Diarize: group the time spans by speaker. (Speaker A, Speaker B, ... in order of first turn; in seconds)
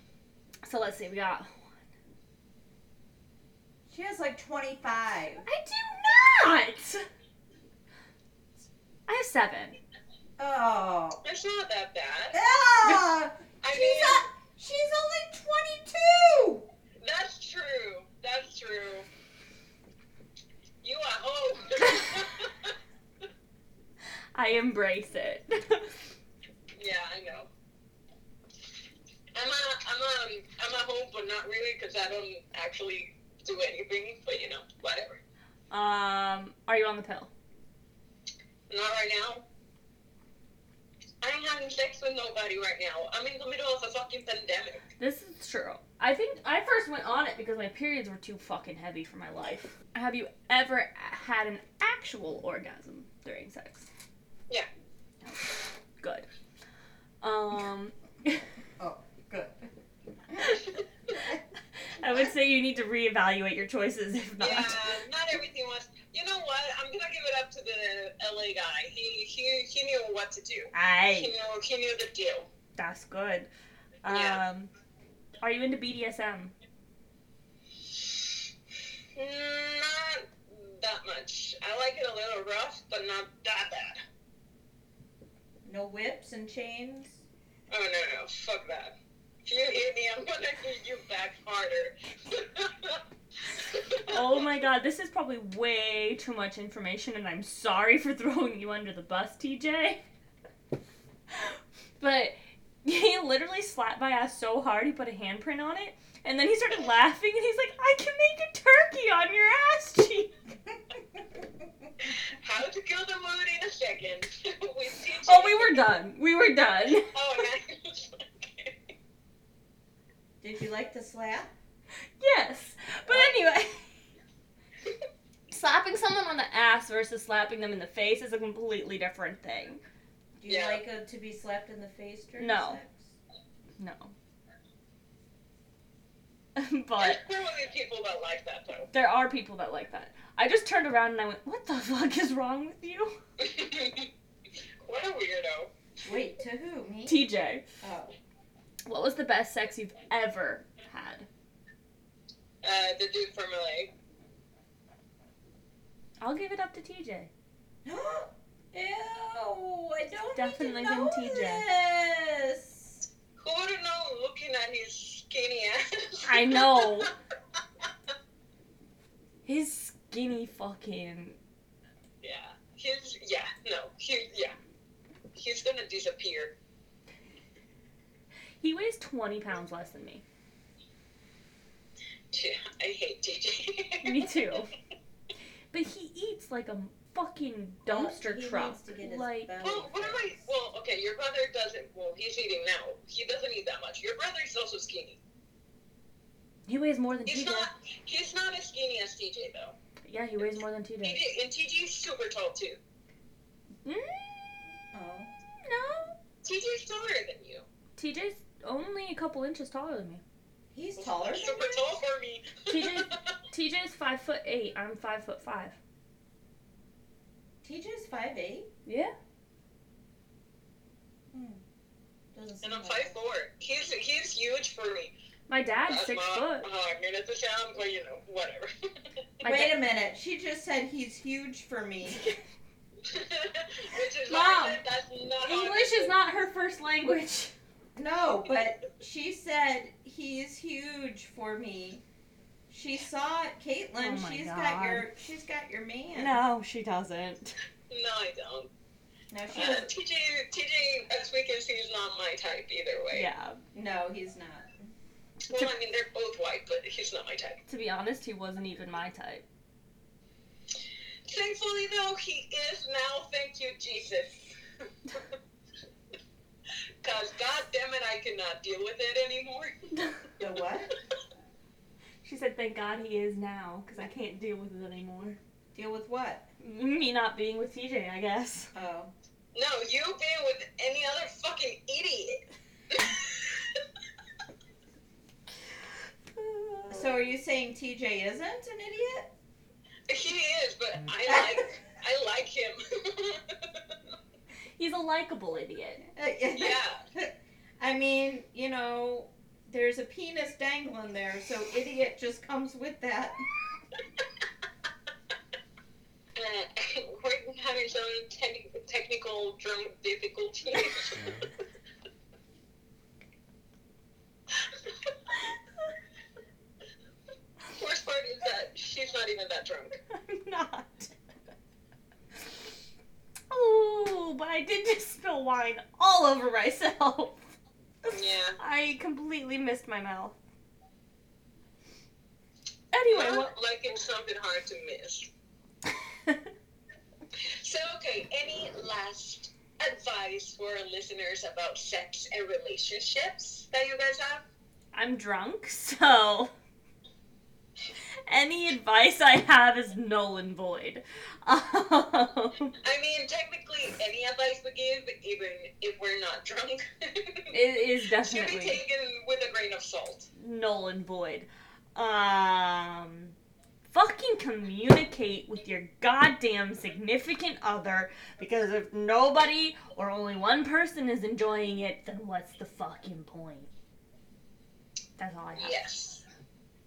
Speaker A: 0.6-1.7, 5.5-7.0, 9.1-9.8, 24.3-26.0, 35.7-37.3, 45.0-53.9, 56.0-56.2, 57.2-58.5, 61.9-65.0, 70.7-71.3, 72.8-73.5, 74.0-74.7, 75.4-76.5, 94.1-100.0, 101.3-110.3, 115.2-117.2, 122.2-123.9, 125.5-129.8, 132.4-132.8, 133.8-134.1, 136.6-137.2, 138.9-143.2, 147.1-147.6, 148.9-151.3, 156.2-157.3, 160.3-161.7, 166.2-167.1, 169.4-171.4, 178.6-180.2, 184.0-184.7, 185.7-189.5, 196.7-197.7, 200.0-201.2, 203.8-204.6, 205.6-206.2, 208.0-210.2, 212.7-215.8, 218.8-219.1, 225.5-226.7, 229.4-229.7, 234.2-234.8, 235.4-237.5, 244.0-245.1, 246.1-247.6, 253.1-253.6, 257.7-259.4, 272.2-275.4, 276.6-278.7, 286.3-287.1, 294.8-296.0, 320.1-321.1, 323.5-327.4, 328.0-330.4, 332.9-333.5, 344.9-346.5, 348.3-352.7, 357.5-358.8, 360.4-363.3, 363.9-373.7, 375.2-375.8
Speaker B: 3.9-5.5, 10.4-11.2, 12.3-16.7, 58.8-59.7, 60.3-60.6, 61.1-61.4, 62.0-62.3, 85.6-87.2, 120.4-121.5, 123.1-123.3, 130.4-133.1, 146.0-147.2, 147.8-148.2, 157.8-163.0, 187.8-190.5, 204.9-205.3, 210.7-211.8, 217.6-218.7, 221.3-221.6, 222.3-223.1, 229.4-232.3, 237.9-242.0, 242.7-246.4, 249.3-249.9, 253.7-254.9, 270.4-270.9, 275.7-276.5, 278.7-279.1, 286.9-289.3, 291.2-291.6, 296.1-303.4
Speaker C: 11.2-12.4, 13.6-14.3, 17.0-19.1, 20.8-22.7, 26.8-27.5, 29.3-35.2, 38.7-39.4, 41.2-44.8, 64.4-72.5, 74.1-74.4, 79.1-84.0, 87.7-88.9, 89.4-93.0, 93.6-94.4, 112.0-115.8, 117.1-118.8, 130.4-130.8, 137.0-138.9, 143.4-144.1, 144.8-145.7, 152.6-153.9, 163.4-167.1, 172.2-174.5, 175.3-176.5, 182.3-184.3, 189.6-195.2, 197.2-199.8, 201.0-202.8, 206.4-207.6, 211.0-213.2, 222.6-225.1, 225.9-228.7, 233.1-236.1, 247.9-248.7, 249.5-253.3, 255.5-257.6, 261.2-264.5, 267.0-269.9, 279.5-283.8, 290.1-294.0, 296.6-297.0, 306.4-311.5, 317.7-319.9, 328.1-328.6, 333.1-335.3, 337.5-344.4, 352.8-357.6, 358.1-360.3, 375.6-376.2